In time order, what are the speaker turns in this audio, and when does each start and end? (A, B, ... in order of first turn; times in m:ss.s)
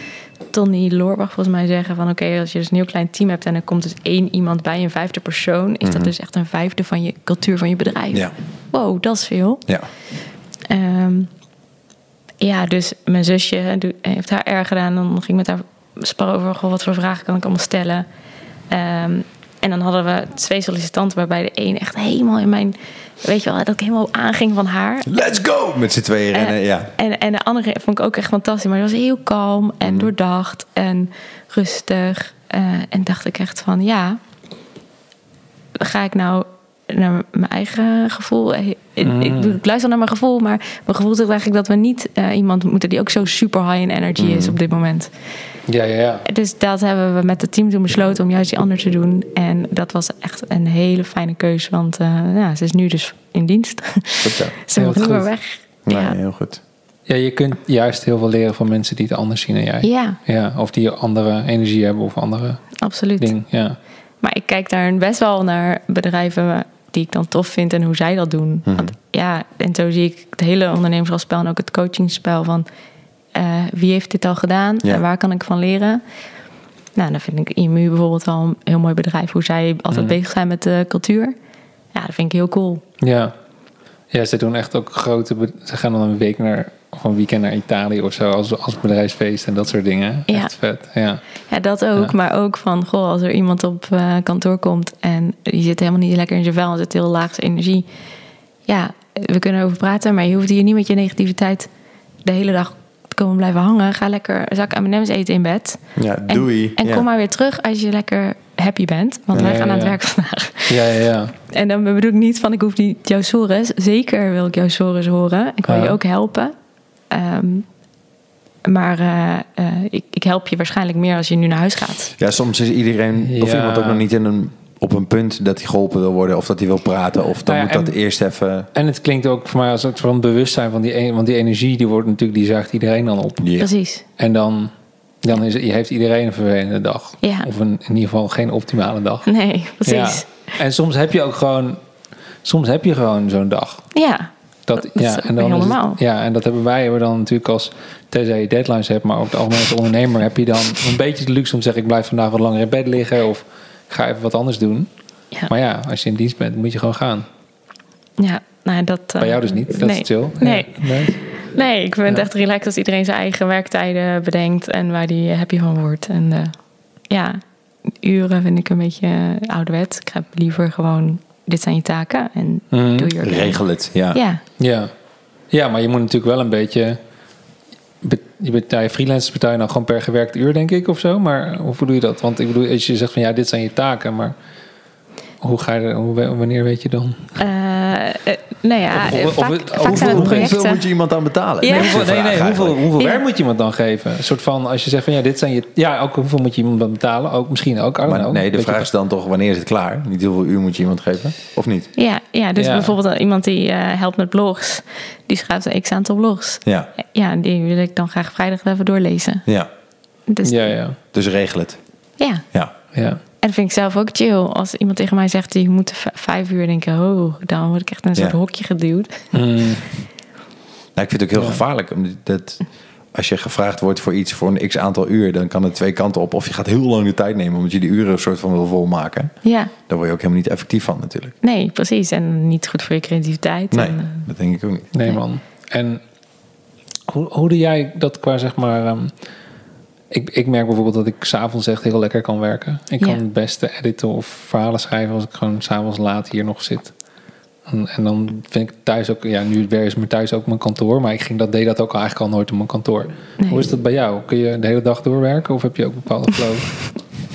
0:00.5-0:09.6 A
0:05.8-0:06.1 B
0:10.7-0:11.3 A
0:12.4-0:18.0 A
0:18.7-0:25.1 A
0:25.0-0:26.9 B
0:26.3-0:34.2 A
0:29.8-0:30.1 B
0:35.8-0:45.1 A
0:39.0-0:39.6 C
0:44.2-0:44.6 B
0:45.7-0:46.2 C
0:46.2-0:56.2 A
0:54.2-0:54.6 B
0:54.8-0:55.3 C
0:55.8-0:56.6 B
0:57.1-1:02.6 C
0:59.8-1:00.2 A
1:02.8-1:03.3 A
1:03.2-1:03.8 C
1:04.2-1:12.6 A
1:08.6-1:08.9 B
1:13.3-1:16.0 A
1:16.9-1:21.3 A
1:21.9-1:22.8 A
1:23.0-1:23.3 C
1:24.1-1:31.2 C
1:31.5-1:37.8 A
1:38.7-1:41.7 A
1:42.2-1:50.8 A
1:46.0-1:47.0 B
1:49.3-1:50.0 C
1:50.7-1:51.3 C
1:51.4-1:56.5 A
1:55.7-1:56.0 C
1:57.1-1:57.6 A
1:58.6-2:02.1 A
2:02.2-2:08.7 B
2:03.2-2:04.0 C
2:07.4-2:07.9 C
2:08.7-2:13.5 C
2:13.4-2:13.7 B
2:13.6-2:14.0 A
2:14.2-2:14.7 C
2:15.2-2:19.3 C
2:17.2-2:17.5 A
2:19.2-2:20.3 A
2:19.8-2:21.8 C
2:22.4-2:23.8 C
2:23.9-2:26.0 A
2:24.7-2:34.9 C
2:35.5-2:37.2 C
2:38.2-2:46.5 A
2:39.2-2:41.2 C
2:47.1-2:47.4 A
2:48.0-2:53.6 A
2:52.7-2:53.1 C
2:53.2-2:54.2 B
2:54.1-2:54.4 A
2:54.6-2:54.9 C
2:55.5-2:57.0 C
2:58.0-3:04.4 C
3:05.4-3:07.4 C
3:07.4-3:10.8 A
3:08.9-3:10.6 C
3:09.8-3:12.8 B
3:11.6-3:12.0 A
3:11.7-3:18.9 C
3:18.0-3:21.9 B
3:22.0-3:29.4 A
3:22.6-3:22.9 C
3:26.6-3:26.9 B
3:30.3-3:30.7 A
3:30.4-3:31.0 C
3:31.1-3:31.8 B
3:32.2-3:32.4 A
3:32.9-3:33.2 C
3:33.4-3:39.2 A
3:39.3-3:39.9 C
3:41.0-3:42.6 B
3:43.1-3:49.3 B
3:49.4-3:49.7 A
3:49.9-3:51.3 B
3:51.4-3:54.3 A
3:53.7-3:54.9 B
3:54.9-3:56.0 C
3:57.1-3:59.1 C
4:00.1-4:06.9 C
4:07.7-4:16.8 C
4:13.4-4:13.7 A